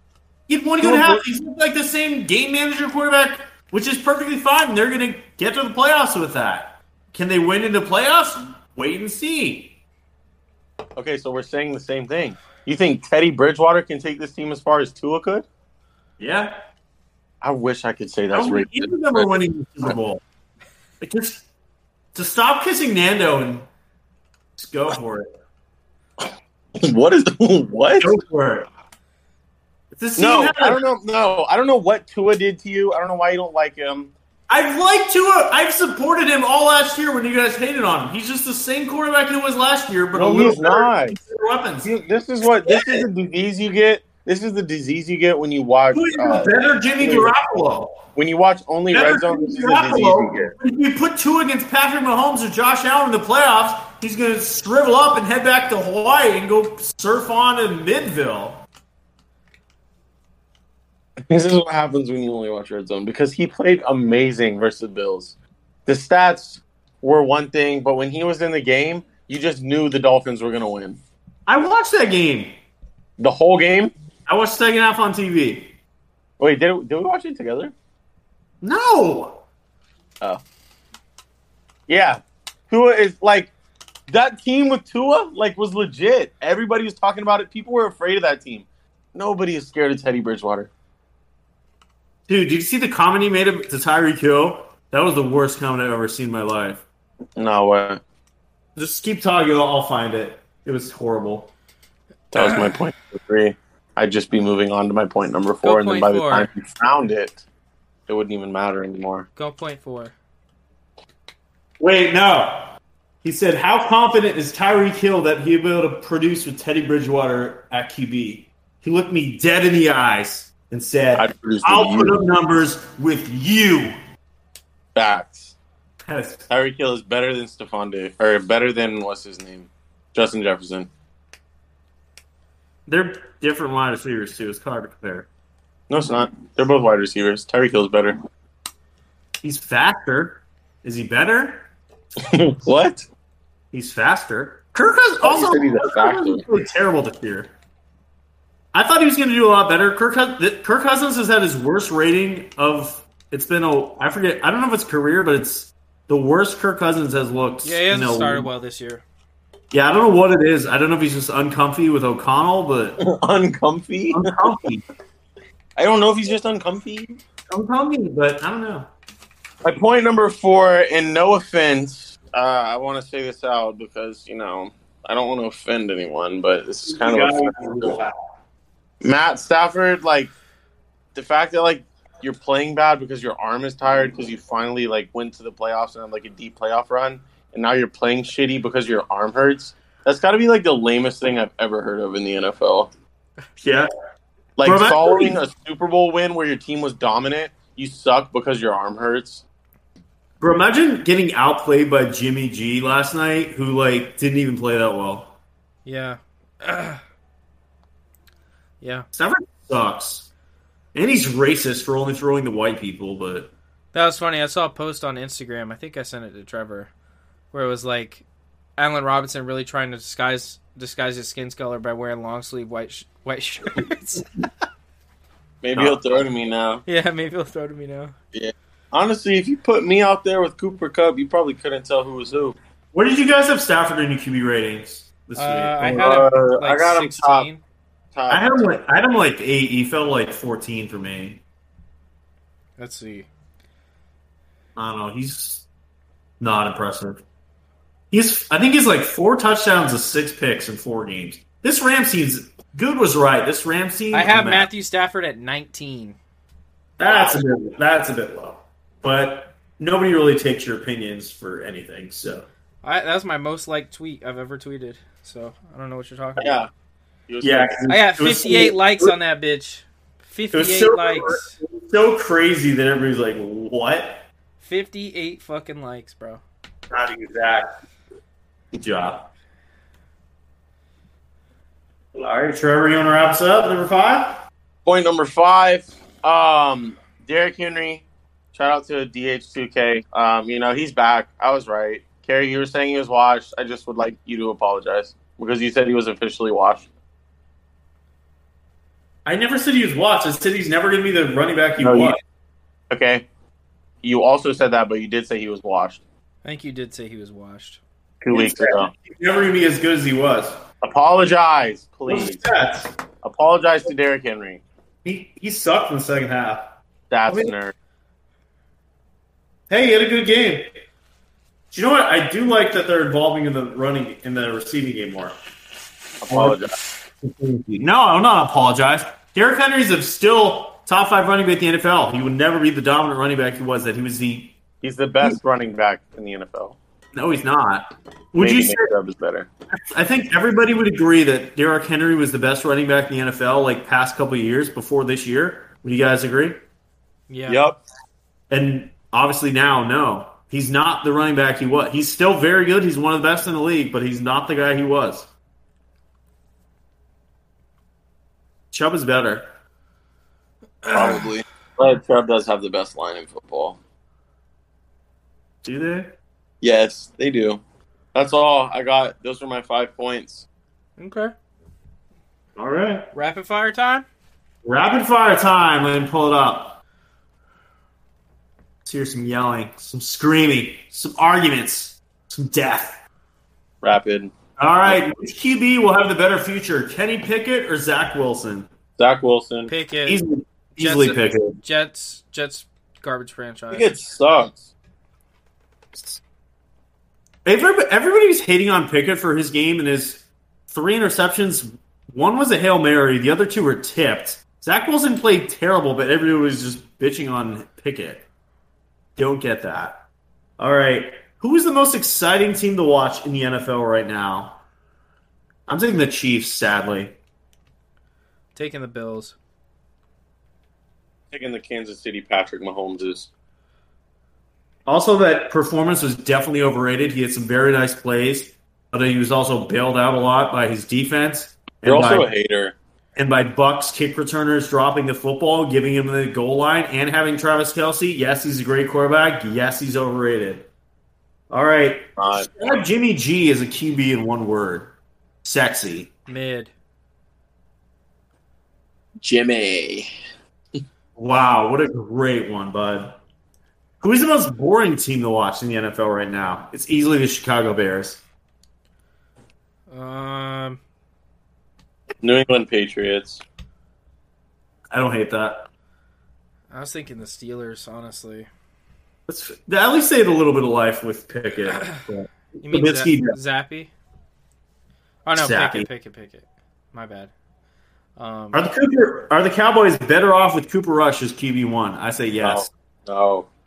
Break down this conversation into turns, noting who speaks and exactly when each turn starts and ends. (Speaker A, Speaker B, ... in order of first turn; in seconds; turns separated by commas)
Speaker A: 0.5-9.8, Speaker B: 0.8-1.2, Speaker B: 10.9-15.4, Speaker A: 16.2-16.5, Speaker B: 17.4-19.3, Speaker A: 18.3-20.2, Speaker A: 21.0-21.4, Speaker A: 22.1-23.6, Speaker A: 24.6-25.3, Speaker B: 26.8-28.1, Speaker A: 28.0-28.7, Speaker A: 29.9-30.8, Speaker B: 30.2-34.1, Speaker A: 34.5-41.9, Speaker B: 40.1-41.2, Speaker B: 41.8-47.3, Speaker A: 42.6-43.0, Speaker A: 45.9-48.0, Speaker B: 48.1-50.5, Speaker A: 48.9-58.6, Speaker B: 61.3-65.3, Speaker B: 65.8-71.0, Speaker A: 71.5-72.5, Speaker B: 73.2-73.9, Speaker A: 74.3-75.7, Speaker B: 76.4-77.7, Speaker A: 78.6-79.4, Speaker B: 81.9-83.5, Speaker B: 84.1-90.7, Speaker A: 92.3-96.8, Speaker B: 97.4-98.0, Speaker A: 98.8-101.5, Speaker B: 102.3-107.4, Speaker A: 102.4-102.6, Speaker C: 105.6-106.5, Speaker B: 108.1-109.3, Speaker C: 109.3-110.1, Speaker A: 111.8-112.7, Speaker A: 113.2-123.9, Speaker B: 121.1-122.2, Speaker B: 124.9-125.5, Speaker A: 126.0-126.5, Speaker B: 126.5-130.9, Speaker A: 132.9-135.3, Speaker B: 135.9-138.2, Speaker A: 139.4-141.7, Speaker B: 142.2-143.1, Speaker A: 143.7-147.5, Speaker B: 145.2-146.4, Speaker A: 148.7-158.5, Speaker C: 157.6-159.0, Speaker A: 159.7-163.0, Speaker B: 163.0-164.3, Speaker A: 164.1-164.8, Speaker B: 165.8-167.2, Speaker A: 167.5-168.9, Speaker B: 169.6-177.9, Speaker A: 176.8-178.2, Speaker B: 179.0-180.3, Speaker B: 181.1-192.9, Speaker A: 193.6-193.9, Speaker B: 194.6-199.4, Speaker A: 194.6-195.4, Speaker A: 200.4-205.3, Speaker C: 205.8-207.0, Speaker C: 208.8-209.1, Speaker A: 209.1-210.3, Speaker A: 210.9-213.5, Speaker C: 213.9-216.9, Speaker C: 217.5-218.2, Speaker C: 218.8-224.2, Speaker B: 225.6-226.8, Speaker A: 225.7-226.0, Speaker C: 226.8-228.1, Speaker B: 228.3-232.6, Speaker A: 232.9-236.0, Speaker C: 235.3-237.6, Speaker B: 235.8-237.5, Speaker B: 238.1-238.6, Speaker A: 238.3-241.4, Speaker C: 242.8-243.3, Speaker A: 244.8-245.7, Speaker A: 246.4-247.2, Speaker A: 248.1-254.7, Speaker C: 254.1-256.1, Speaker A: 257.0-262.5, Speaker B: 257.1-257.4, Speaker C: 262.8-266.6, Speaker B: 266.4-266.7, Speaker B: 267.3-267.8, Speaker A: 267.4-269.1, Speaker C: 267.9-271.5, Speaker A: 270.5-274.2, Speaker C: 274.6-276.4, Speaker A: 276.9-277.7, Speaker A: 278.7-279.2, Speaker A: 282.1-284.4, Speaker B: 284.8-296.9, Speaker A: 299.2-302.2, Speaker B: 301.8-302.2, Speaker B: 302.9-303.2, Speaker B: 304.0-306.0, Speaker C: 306.4-307.8, Speaker B: 308.2-308.9, Speaker A: 308.3-310.6, Speaker B: 310.8-312.4, Speaker A: 312.1-312.9, Speaker B: 313.2-314.6, Speaker A: 315.0-316.7, Speaker B: 317.1-317.7, Speaker A: 317.3-317.5, Speaker A: 319.7-320.7, Speaker A: 321.7-325.3, Speaker B: 326.2-326.8, Speaker A: 326.3-334.6, Speaker B: 334.8-336.8, Speaker A: 337.1-338.9, Speaker B: 338.4-339.5, Speaker A: 339.7-346.6, Speaker C: 347.3-347.6, Speaker B: 347.5-347.8, Speaker A: 348.5-355.3, Speaker A: 358.7-359.4, Speaker C: 360.8-361.3, Speaker B: 360.9-363.8, Speaker A: 365.6-366.1, Speaker B: 366.6-367.6, Speaker B: 368.1-370.4, Speaker C: 371.0-371.3, Speaker A: 372.6-373.1, Speaker C: 373.1-374.0, Speaker A: 374.6-376.8, Speaker A: 378.8-383.0, Speaker B: 383.8-384.3, Speaker A: 384.6-388.7, Speaker B: 389.0-389.7, Speaker C: 389.7-390.2, Speaker A: 390.1-391.6, Speaker C: 390.8-394.0, Speaker B: 393.7-394.7, Speaker A: 395.9-396.2, Speaker A: 397.4-408.2, Speaker A: 409.1-410.0, Speaker A: 410.6-414.6, Speaker A: 415.7-417.1, Speaker C: 418.5-419.3, Speaker B: 421.3-423.3, Speaker A: 424.9-432.3, Speaker B: 431.8-432.7, Speaker A: 433.1-440.7, Speaker A: 441.5-444.9, Speaker B: 442.2-442.5, Speaker A: 445.4-446.1, Speaker C: 446.3-446.7, Speaker B: 449.2-450.1, Speaker A: 451.1-453.2, Speaker A: 454.0-458.2, Speaker C: 459.9-460.8, Speaker B: 462.2-463.4, Speaker A: 464.9-465.7, Speaker C: 466.7-468.5, Speaker A: 469.3-473.4, Speaker C: 472.6-473.9, Speaker C: 475.2-477.3, Speaker A: 475.3-475.9, Speaker C: 478.2-478.6, Speaker A: 478.5-482.7, Speaker B: 482.4-483.5